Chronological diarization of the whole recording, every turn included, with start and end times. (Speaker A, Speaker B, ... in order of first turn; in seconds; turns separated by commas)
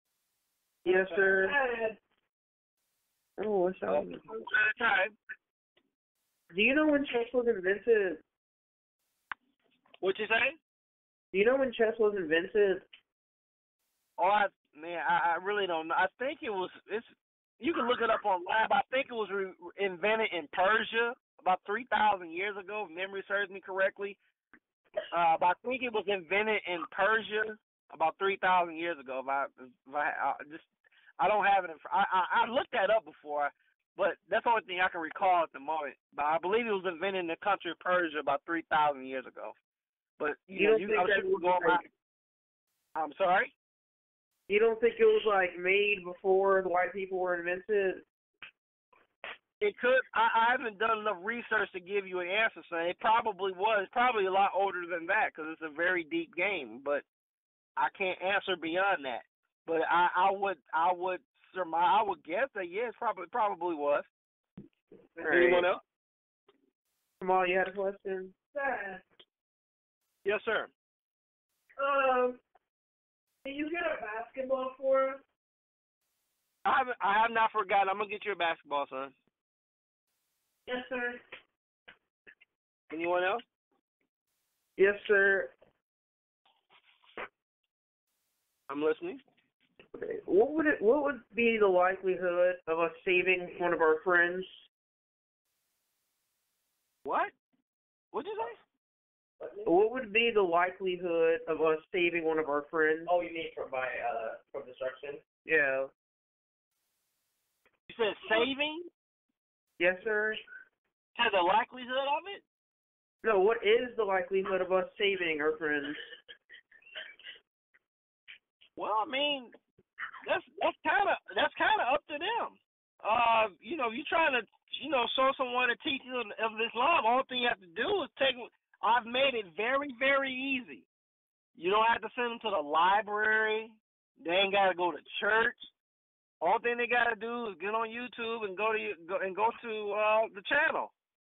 Speaker A: 0.8-1.6, Speaker B: 0.8-2.0, Speaker A: 3.4-4.3, Speaker C: 3.9-5.1, Speaker A: 6.5-8.2, Speaker C: 10.0-10.6, Speaker A: 11.3-12.8, Speaker C: 14.2-24.2, Speaker C: 25.1-30.7, Speaker C: 31.2-39.5, Speaker C: 40.2-41.9, Speaker A: 40.6-41.8, Speaker C: 43.0-43.5, Speaker A: 44.5-48.0, Speaker C: 49.6-57.0, Speaker C: 57.8-64.1, Speaker A: 65.2-65.7, Speaker C: 65.3-65.8, Speaker A: 67.2-68.3, Speaker B: 68.5-69.0, Speaker C: 70.2-70.7, Speaker B: 71.8-72.4, Speaker B: 73.4-75.2, Speaker C: 76.6-79.1, Speaker B: 80.7-81.2, Speaker C: 82.9-83.4, Speaker A: 84.8-85.5, Speaker C: 88.7-89.2, Speaker A: 89.9-94.6, Speaker C: 97.0-97.3, Speaker C: 98.1-98.6, Speaker D: 99.4-99.7, Speaker A: 99.7-103.1, Speaker D: 103.1-105.2, Speaker A: 105.5-105.9, Speaker C: 107.9-108.9, Speaker A: 109.8-110.4, Speaker C: 111.1-112.4, Speaker A: 113.2-116.0, Speaker C: 118.8-119.5, Speaker C: 120.2-130.8, Speaker C: 131.6-135.7, Speaker C: 136.4-140.9